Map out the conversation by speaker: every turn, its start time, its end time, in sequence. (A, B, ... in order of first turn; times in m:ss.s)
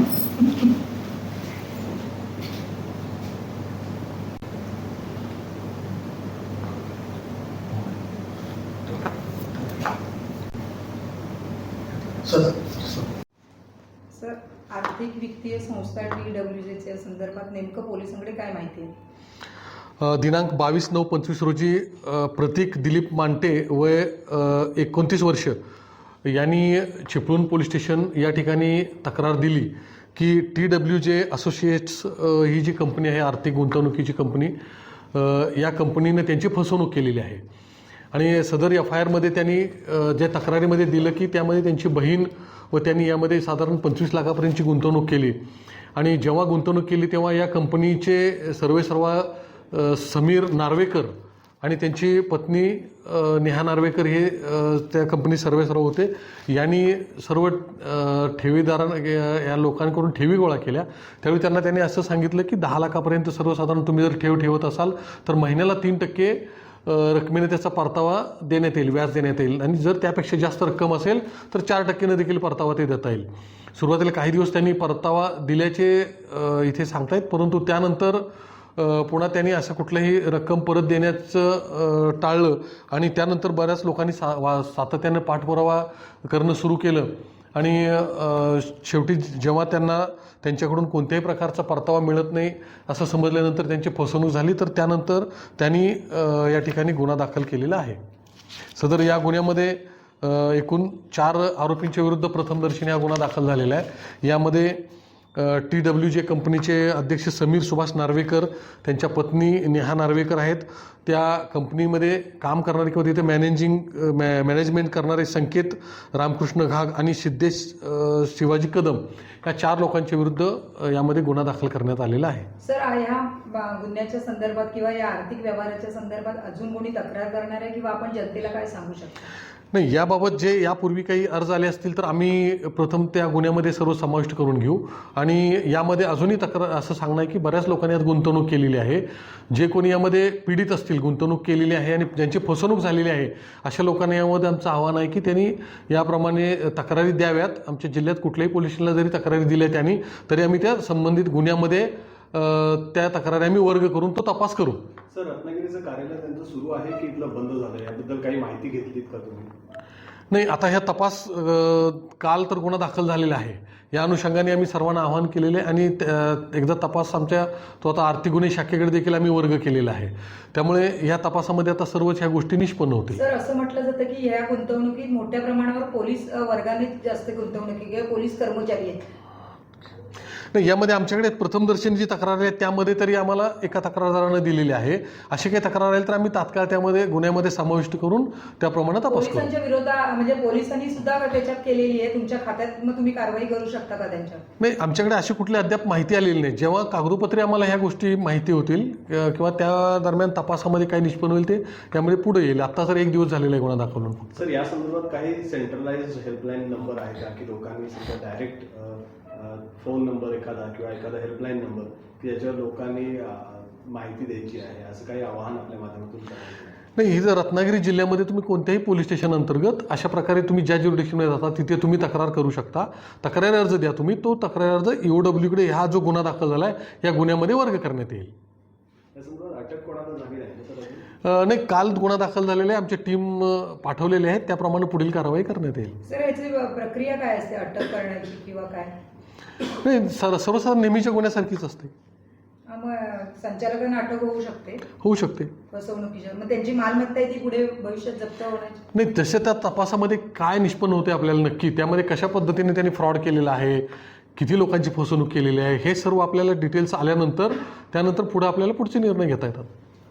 0:14.1-0:18.9 A
0:20.0-0:25.6 B
0:26.2-0:34.5 B
0:35.1-0:37.4 B
0:38.1-0:45.4 B
0:45.9-1:18.2 B
1:18.8-1:38.0 B
1:38.8-2:02.5 B
2:02.6-2:09.2 A
2:09.7-2:34.9 B
2:35.1-2:39.5 C
2:40.3-2:53.2 B
2:53.1-2:59.1 A
3:00.5-3:09.5 B
3:09.1-3:14.4 A
3:14.6-3:24.4 B
3:24.4-3:36.8 C
3:37.0-3:48.3 B
3:49.1-3:51.1 C
3:51.2-3:56.0 B
3:56.0-3:58.9 A
3:59.6-4:01.9 B
4:02.7-4:04.8 A
4:05.0-4:05.5 B
4:05.7-4:08.8 A
4:08.9-4:19.7 B